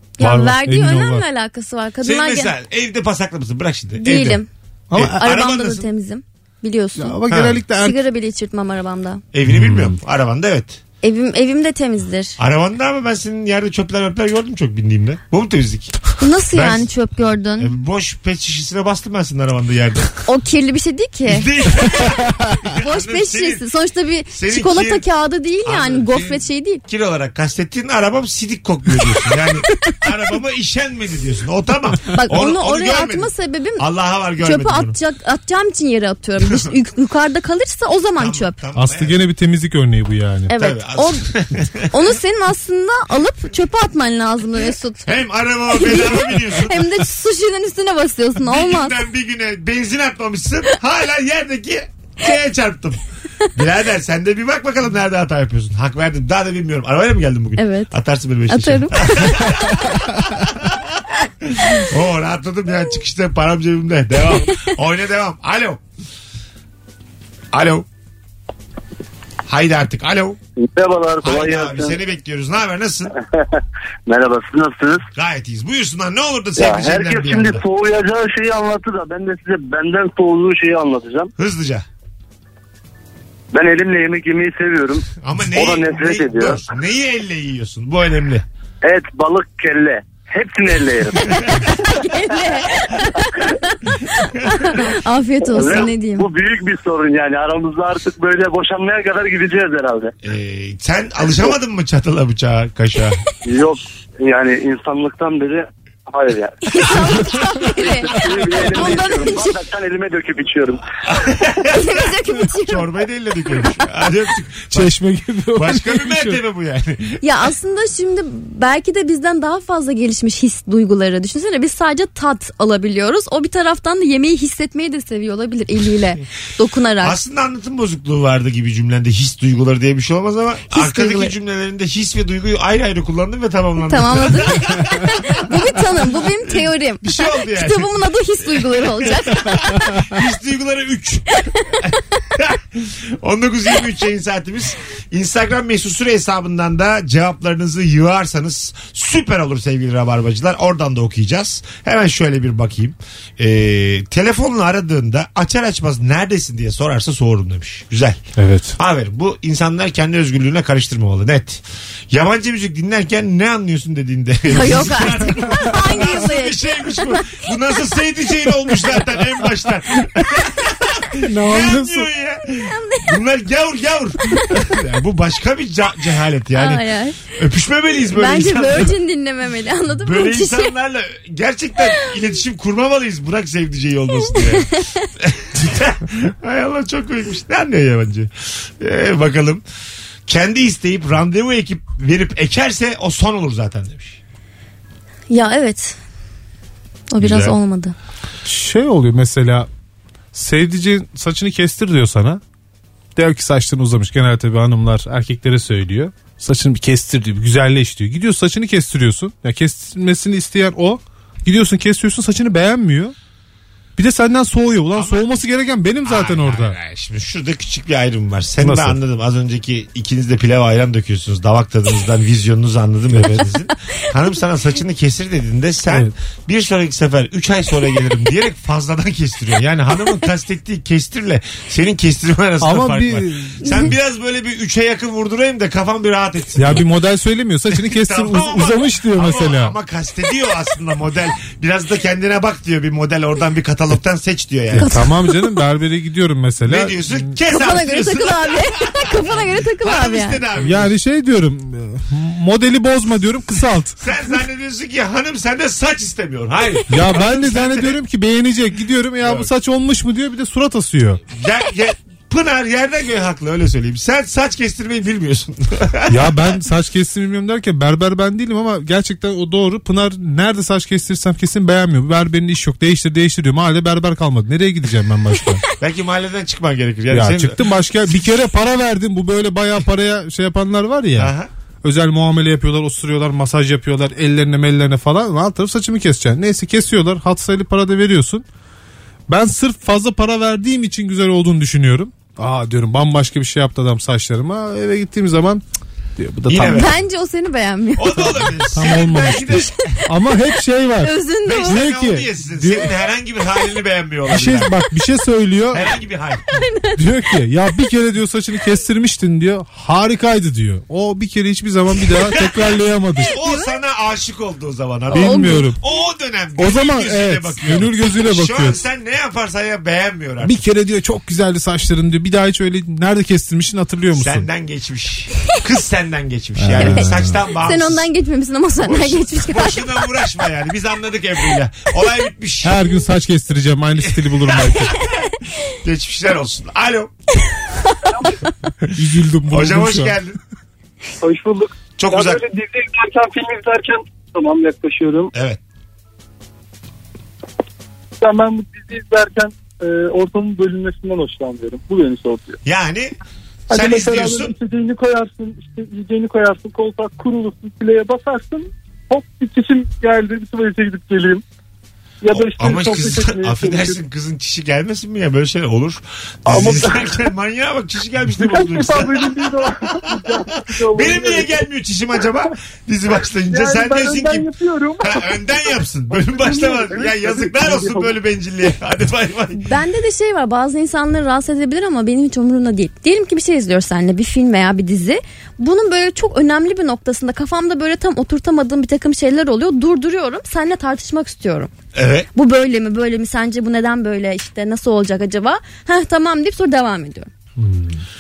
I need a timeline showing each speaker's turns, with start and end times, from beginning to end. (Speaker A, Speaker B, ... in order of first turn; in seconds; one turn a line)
Speaker A: 0.2-2.5
Speaker B: 0.2-1.2
Speaker C: 2.0-5.9
Speaker A: 4.0-4.5
Speaker B: 4.9-5.2
Speaker A: 5.0-7.2
Speaker B: 7.0-8.0
Speaker C: 7.3-7.6
Speaker A: 7.8-9.2
Speaker C: 9.3-10.8
Speaker B: 9.5-10.0
Speaker A: 11.0-12.3
Speaker C: 12.4-16.0
Speaker A: 16.2-17.7
Speaker C: 16.5-16.9
Speaker C: 17.6-20.2
Speaker A: 20.2-21.5
Speaker C: 21.3-23.6
Speaker A: 22.7-26.8
Speaker C: 24.3-25.0
Speaker C: 25.6-35.0
Speaker A: 29.7-30.0
Speaker A: 32.1-33.8
Speaker A: 34.4-38.6
Speaker C: 36.4-36.7
Speaker C: 38.2-39.1
Speaker B: 38.8-40.5
Speaker A: 40.5-41.2
Speaker C: 40.5-41.9
Speaker A: 41.9-45.1
Speaker C: 45.0-47.0
Speaker A: 45.7-49.0
Speaker C: 48.4-53.0
Speaker C: 53.5-65.8
Speaker A: 57.6-57.9
Speaker A: 58.5-59.6
Speaker C: 67.5-67.9
Speaker C: 69.5-70.4
Speaker D: 70.6-72.0
Speaker C: 71.2-73.1
Speaker D: 73.2-75.0
Speaker C: 75.1-77.6
Speaker D: 76.6-81.3
Speaker C: 81.4-81.8
Speaker D: 83.5-86.6
Speaker C: 85.2-88.5
Speaker D: 88.8-91.7
Speaker A: 91.5-96.2
Speaker C: 94.4-94.7
Speaker D: 95.5-100.1
Speaker C: 100.2-103.2
Speaker D: 103.4-106.5
Speaker A: 106.7-109.6
Speaker D: 107.8-110.8
Speaker C: 111.0-115.0
Speaker A: 111.6-112.9
Speaker B: 114.7-116.4
Speaker C: 115.5-117.2
Speaker A: 117.2-127.2
Speaker C: 127.0-158.2
Speaker A: 130.7-131.3
Speaker A: 133.8-139.9
Speaker B: 158.4-158.7
Speaker C: 158.8-178.9
Speaker A: 164.5-167.4
Speaker B: 171.2-172.1
Speaker A: 172.5-173.2
Speaker A: 176.5-177.2
Speaker A: 178.1-180.7
Speaker C: 179.9-189.6
Speaker A: 184.3-185.1
Speaker C: 190.3-194.2
Speaker A: 195.3-196.0
Speaker A: 197.1-197.9
Speaker C: 197.2-197.5
Speaker B: 198.4-199.7
Speaker B: 200.3-202.4
Speaker B: 203.2-213.1
Speaker B: 214.0-216.8
Speaker C: 214.9-215.2
Speaker C: 216.0-236.8
Speaker B: 218.6-219.0
Speaker B: 232.6-233.6
Speaker B: 236.6-239.7
Speaker C: 237.7-244.9
Speaker B: 244.7-247.1
Speaker A: 244.7-245.6
Speaker C: 246.6-250.9
Speaker A: 247.5-250.4
Speaker B: 250.6-254.0
Speaker C: 254.0-258.0
Speaker B: 256.9-261.2
Speaker C: 259.2-259.5
Speaker C: 261.3-266.6
Speaker B: 266.1-275.6
Speaker C: 275.8-278.3
Speaker B: 277.1-288.4
Speaker C: 281.1-281.5
Speaker B: 289.3-295.6
Speaker B: 296.2-296.9
Speaker C: 296.5-296.9
Speaker A: 296.7-298.4
Speaker C: 298.0-299.7
Speaker B: 298.7-302.9
Speaker A: 301.0-301.8
Speaker C: 301.4-304.7
Speaker B: 304.3-305.9
Speaker C: 305.7-306.4
Speaker A: 306.5-307.0
Speaker B: 306.9-313.4
Speaker C: 312.2-312.7
Speaker C: 313.3-320.6
Speaker A: 313.4-313.7
Speaker B: 315.1-315.8
Speaker A: 315.1-315.7
Speaker B: 316.6-318.8
Speaker B: 320.4-324.4
Speaker C: 324.1-328.1
Speaker B: 326.6-327.4
Speaker A: 327.6-330.1
Speaker C: 328.8-332.8
Speaker B: 332.6-334.9
Speaker C: 334.0-334.9
Speaker C: 335.7-337.1
Speaker B: 338.9-340.2
Speaker C: 339.5-340.4
Speaker E: 341.2-345.3
Speaker C: 342.0-342.4
Speaker C: 345.3-345.6
Speaker E: 348.2-352.6
Speaker C: 352.6-353.2
Speaker C: 353.7-354.5
Speaker E: 353.7-361.4
Speaker E: 362.2-364.0
Speaker C: 362.3-369.6
Speaker E: 366.5-367.2
Speaker E: 368.4-371.5
Speaker C: 370.5-374.5
Speaker E: 373.5-378.1
Speaker C: 375.0-379.7
Speaker A: 379.5-391.7
Speaker C: 391.9-392.3
Speaker A: 392.3-397.3
Speaker B: 397.6-398.0